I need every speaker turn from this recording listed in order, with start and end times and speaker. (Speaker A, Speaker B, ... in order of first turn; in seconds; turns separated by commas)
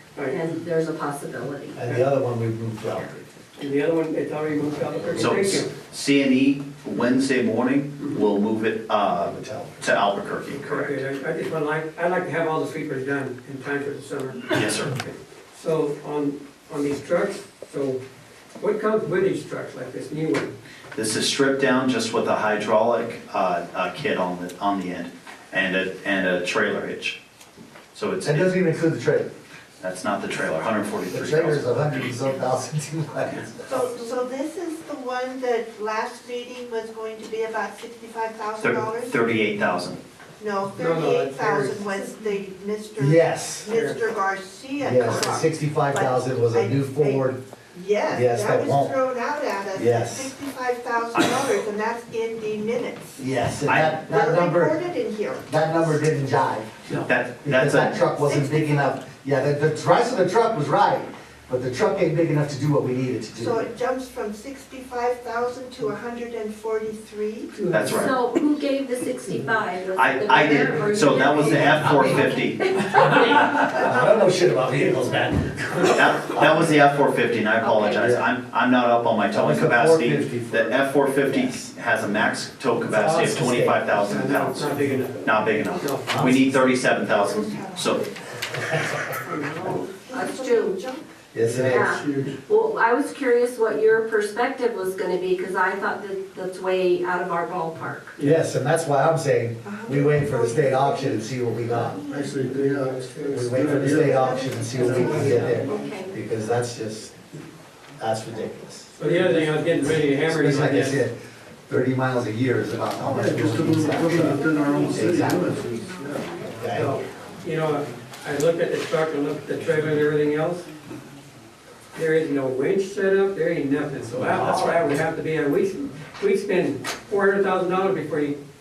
Speaker A: 0.1-0.4, Speaker B: 0.2-1.8, Speaker C: 1.7-3.3, Speaker B: 2.8-3.1, Speaker A: 3.5-5.7, Speaker D: 5.2-11.0, Speaker C: 9.1-9.9, Speaker A: 10.6-18.0, Speaker D: 14.5-15.0, Speaker A: 18.6-20.5, Speaker D: 20.9-27.2, Speaker D: 27.9-28.6, Speaker C: 28.2-29.3, Speaker D: 29.8-31.9, Speaker C: 31.1-33.9, Speaker E: 33.7-39.2, Speaker D: 38.6-40.0, Speaker E: 40.4-53.2, Speaker A: 40.7-42.1, Speaker C: 43.0-43.7, Speaker A: 43.6-44.1, Speaker C: 44.8-47.4, Speaker C: 48.1-49.0, Speaker C: 49.7-50.3, Speaker C: 53.2-54.8, Speaker D: 53.6-54.0, Speaker E: 54.0-55.7, Speaker C: 55.5-56.9, Speaker D: 56.9-58.0, Speaker C: 57.4-63.6, Speaker E: 58.1-59.0, Speaker E: 63.4-67.5, Speaker A: 67.5-68.1, Speaker D: 67.7-68.1, Speaker B: 67.9-74.1, Speaker D: 69.9-72.7, Speaker C: 71.3-72.2, Speaker C: 72.9-76.4, Speaker D: 75.9-88.0, Speaker B: 77.6-78.2, Speaker C: 78.0-78.2, Speaker C: 79.3-81.7, Speaker C: 82.9-83.8, Speaker A: 83.1-83.4, Speaker A: 83.9-86.2, Speaker C: 86.1-86.5, Speaker E: 86.9-88.5, Speaker E: 89.2-91.1, Speaker A: 89.3-89.6, Speaker B: 89.6-90.8, Speaker C: 91.3-91.9, Speaker F: 91.4-92.4, Speaker B: 91.6-98.2, Speaker A: 98.2-98.4, Speaker C: 98.2-102.0, Speaker E: 99.6-102.5, Speaker F: 102.1-105.6, Speaker A: 102.8-104.0, Speaker C: 103.3-107.2, Speaker E: 103.6-106.0, Speaker A: 104.7-105.8, Speaker B: 105.6-106.2, Speaker C: 108.0-108.9, Speaker A: 109.0-111.0, Speaker F: 109.0-109.4, Speaker C: 110.2-111.1, Speaker C: 111.7-115.5, Speaker F: 113.0-116.3, Speaker B: 114.3-114.8, Speaker B: 115.5-117.2, Speaker C: 116.5-117.0, Speaker A: 116.7-120.7, Speaker A: 121.9-128.4, Speaker C: 124.1-125.0